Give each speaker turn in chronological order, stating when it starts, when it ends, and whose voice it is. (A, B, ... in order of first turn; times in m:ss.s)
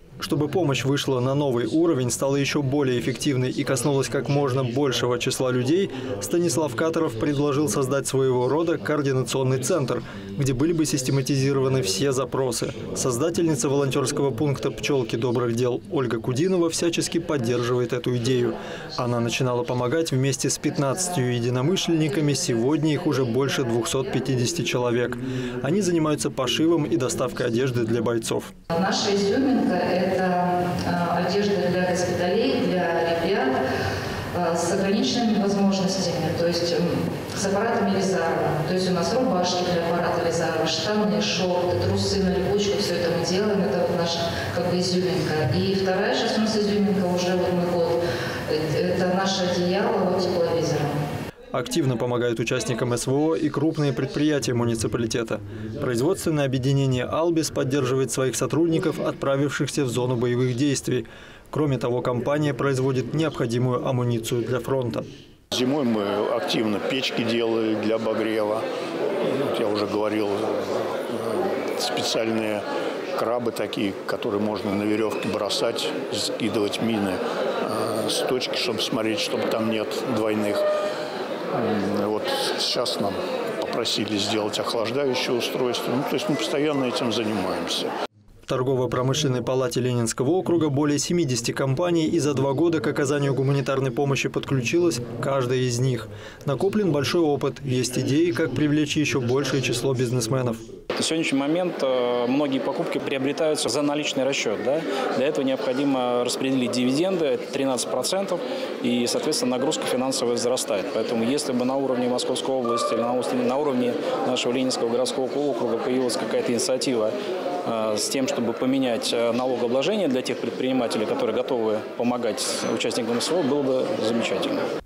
0:00.2-0:28.5 A
0:18.2-0:19.8 B
0:20.6-0:24.4 B
0:28.7-0:33.6 B
0:34.3-0:51.0 B
0:51.5-1:05.1 A
1:05.5-1:08.7 C
1:09.2-1:20.6 C
1:21.5-1:27.9 C
1:28.5-1:40.6 A
1:41.0-2:04.6 D